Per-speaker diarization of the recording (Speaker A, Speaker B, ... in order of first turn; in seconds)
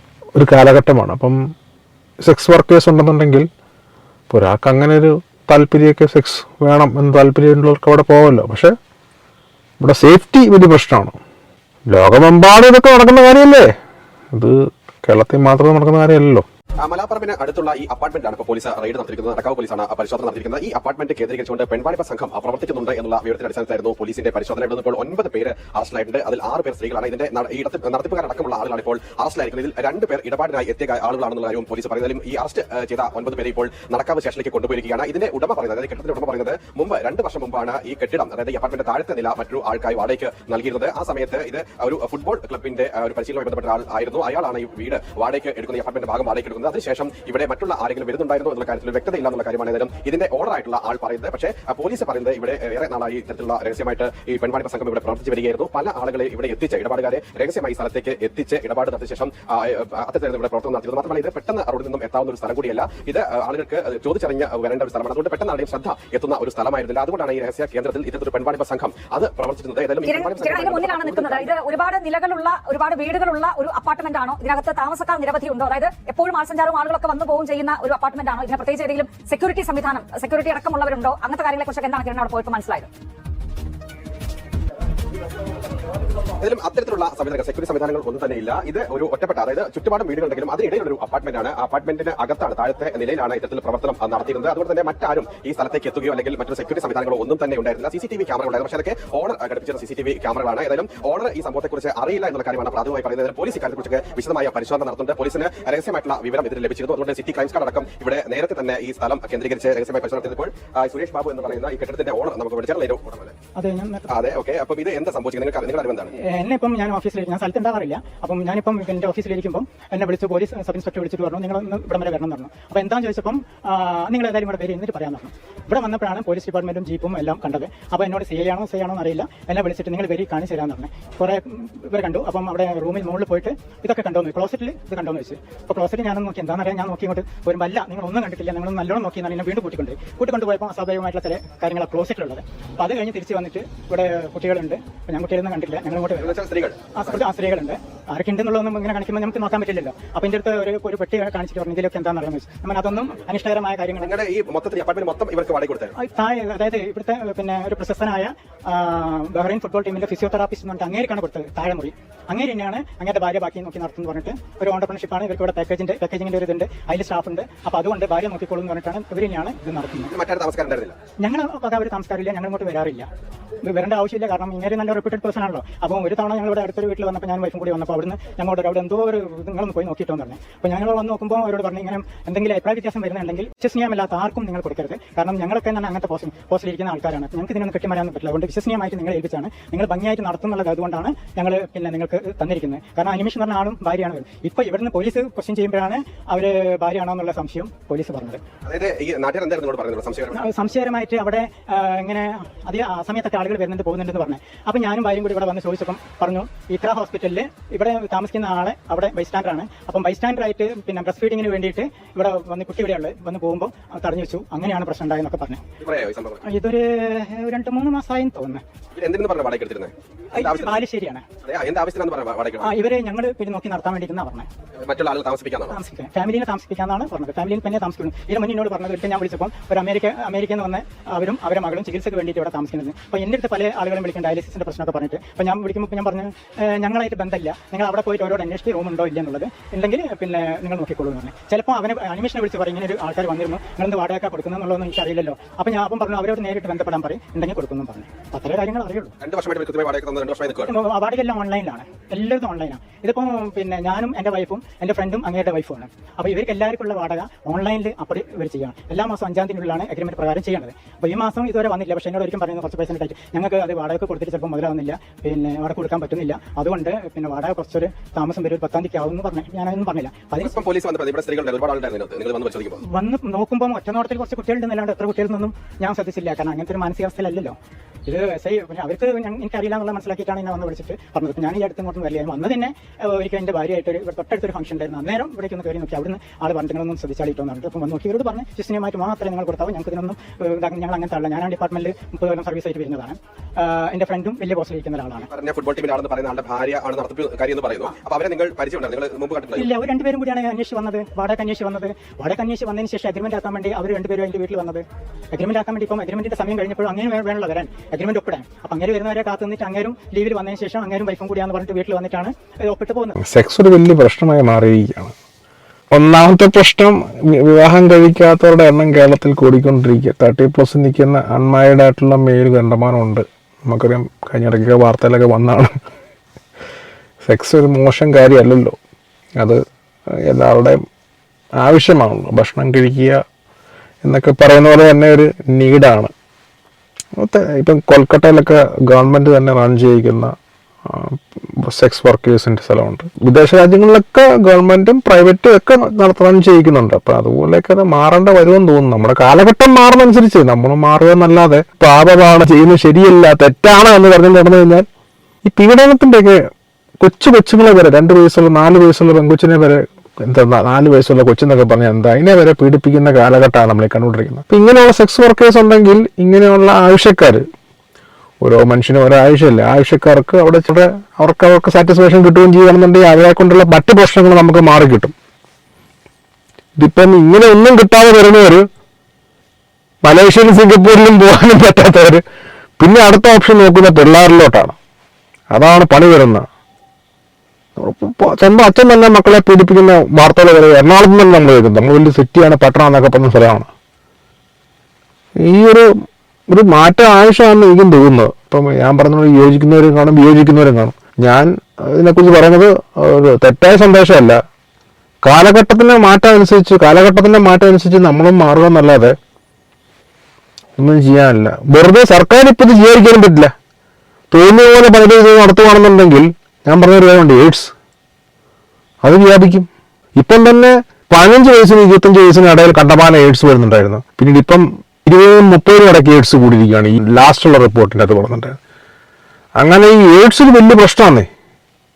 Speaker A: 0.3-1.4, 2.2-3.5, 4.3-8.7, 9.8-11.2, 11.9-13.7, 14.3-16.4, 313.2-315.1, 315.9-325.7, 327.2-328.8, 330.1-330.8, 331.6-333.2, 334.0-336.1, 337.2-340.3, 340.9-354.9, 355.4-356.4, 357.0-367.4, 368.4-375.1, 376.8-378.7, 380.0-382.2, 382.8-384.8, 385.5-386.5, 387.8-393.7, 395.4-395.9, 396.5-404.4, 405.2-409.1, 410.8-413.5, 414.3-417.7, 419.0-428.6, 429.6-431.3
Speaker B: 16.8-71.6, 86.4-113.3, 114.1-116.1, 146.2-146.9, 154.0-155.9, 170.1-170.9, 198.7-200.4, 215.8-216.4, 219.0-220.8, 221.4-222.7, 224.8-225.8, 249.2-250.7, 270.4-272.8, 295.3-299.7
Speaker C: 70.0-82.9
Speaker D: 113.5-114.1, 116.2-146.3, 146.9-154.1, 156.0-170.1, 171.2-173.1, 173.6-198.4, 200.3-215.6, 216.4-218.6, 220.3-221.2, 222.6-224.5, 225.7-249.1, 250.6-270.6, 272.8-277.5, 278.1-295.3, 299.6-313.1